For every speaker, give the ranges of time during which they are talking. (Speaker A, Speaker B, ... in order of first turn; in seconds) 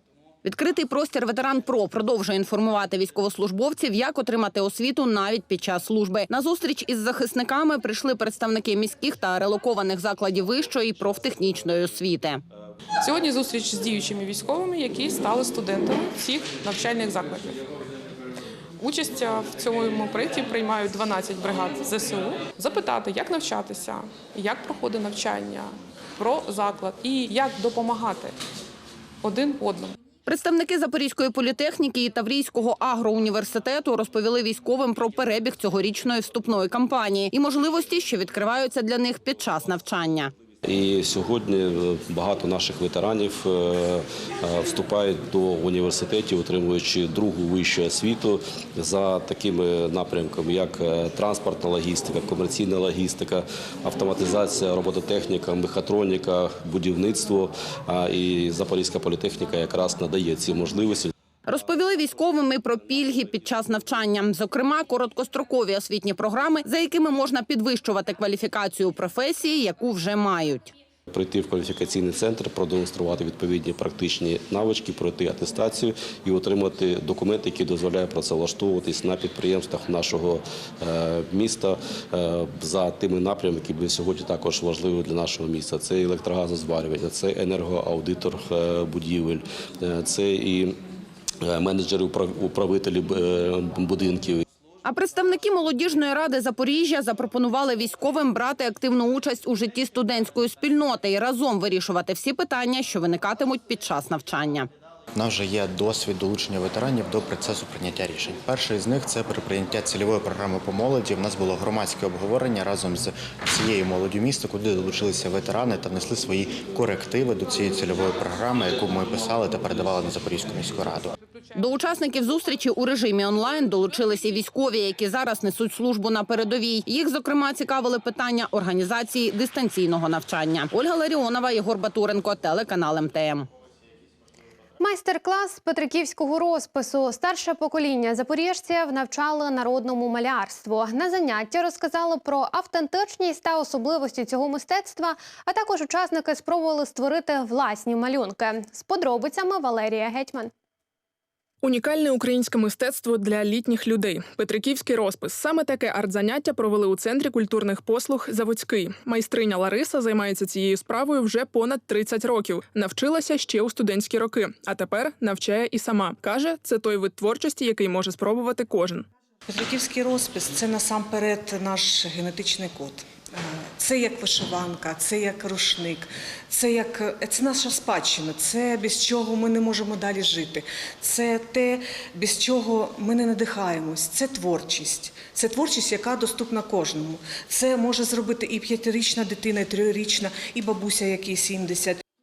Speaker A: 0.4-12.4, 30.2-40.3, 61.5-70.7, 94.8-104.7, 121.5-133.5
Speaker B: 13.0-17.6, 18.8-28.3, 29.2-29.9
Speaker C: 40.6-61.1, 71.1-90.8, 91.4-94.4
Speaker D: 105.1-121.1
Speaker E: 134.8-150.5
Speaker F: 151.6-169.1
Speaker G: 169.5-192.0